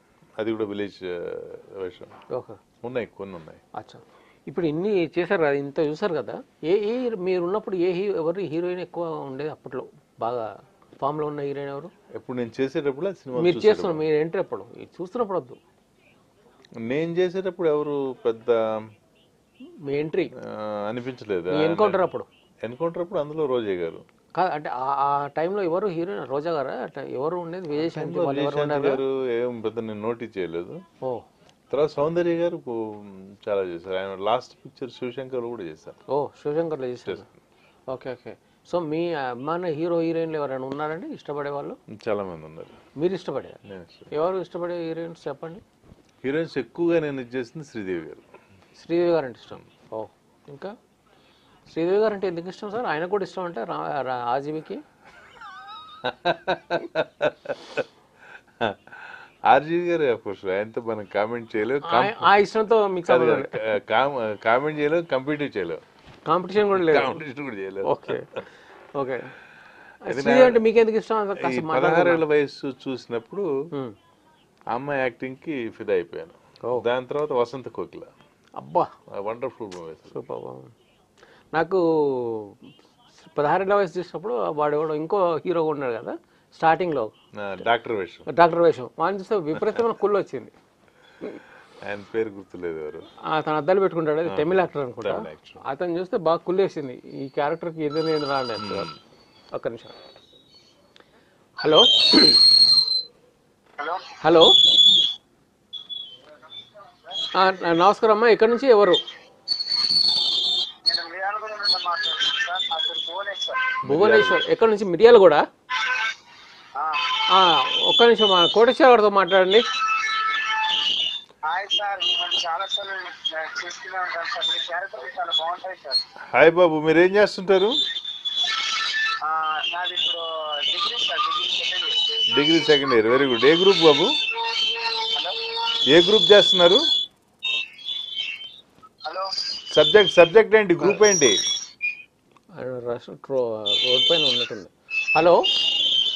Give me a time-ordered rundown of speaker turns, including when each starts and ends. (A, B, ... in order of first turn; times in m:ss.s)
0:00.4-0:02.2 A
0:02.3-0:02.6 B
0:02.8-0:03.6 A
0:03.7-0:10.5 B
0:11.0-0:11.9 B
0:12.1-0:14.0 A
0:13.4-0:15.6 B
0:16.8-0:18.9 A
0:19.8-0:20.3 B
0:20.4-0:22.1 A
0:21.5-0:22.3 B
0:22.6-0:24.0 A
0:24.4-0:29.0 B
0:27.7-0:30.8 A
0:31.7-0:36.0 A
0:36.1-0:37.2 B
0:37.0-0:37.3 A
0:37.9-0:41.8 B
0:41.9-0:42.8 A
0:43.0-0:43.6 B
0:43.6-0:44.1 A
0:44.1-0:45.6 B
0:46.2-0:48.2 A
0:48.8-0:50.7 B
0:51.7-0:54.8 B
0:56.0-0:57.8 A
0:58.6-1:02.3 A
1:01.8-1:03.6 B
1:03.1-1:05.8 A
1:06.3-1:07.2 B
1:06.7-1:08.2 A
1:07.8-1:09.3 B
1:10.0-1:12.2 B
1:10.1-1:10.6 A
1:11.4-1:13.5 A
1:14.7-1:18.1 A
1:18.6-1:18.9 B
1:19.1-1:20.2 A
1:20.1-1:20.7 B
1:21.5-1:22.6 B
1:23.2-1:27.1 B
1:27.3-1:28.3 A
1:28.3-1:30.5 B
1:31.8-1:33.1 A
1:33.3-1:38.9 B
1:34.2-1:35.6 A
1:38.6-1:39.0 A
1:39.5-1:40.0 B
1:41.6-1:42.4 B
1:43.8-1:44.0 C
1:44.2-1:44.6 B
1:47.3-1:49.0 B
1:50.9-1:53.8 C
1:53.8-1:54.4 A
1:53.9-1:55.4 B
1:56.8-1:57.2 C
1:57.3-1:59.7 B
2:01.4-2:06.0 C
2:06.3-2:07.8 A
2:09.2-2:12.2 C
2:12.3-2:14.1 A
2:15.1-2:15.4 C
2:15.9-2:16.8 A
2:19.7-2:21.4 A
2:22.6-2:25.5 B